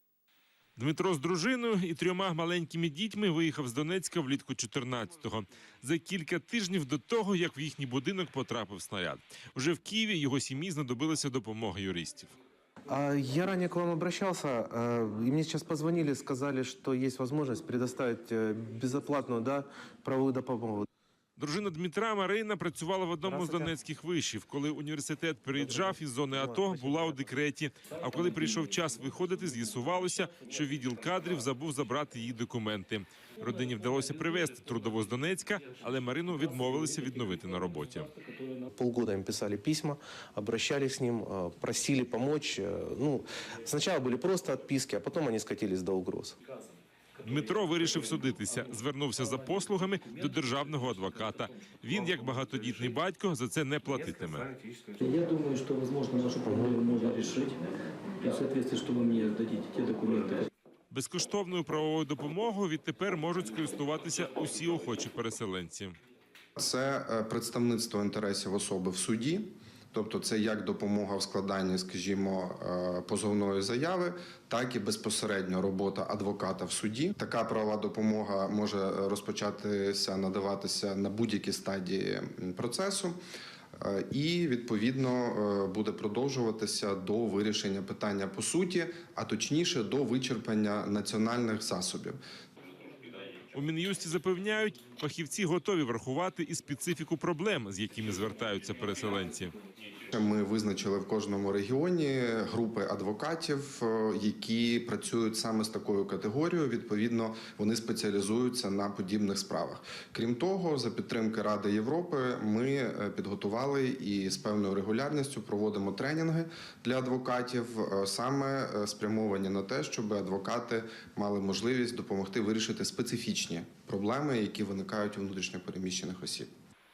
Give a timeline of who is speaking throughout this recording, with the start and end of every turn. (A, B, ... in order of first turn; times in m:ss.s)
0:00.8-0:12.3 A
0:12.9-0:20.9 B
0:21.4-0:38.1 A
0:23.3-0:23.7 B
0:26.4-0:26.8 B
0:38.7-0:46.4 B
0:47.2-0:54.5 A
0:55.0-0:57.6 C
0:56.4-0:56.8 B
0:58.2-1:00.5 C
1:00.9-1:06.0 A
1:06.6-1:23.2 D
1:23.8-1:32.2 D
1:33.5-1:39.6 A
1:40.1-2:06.5 D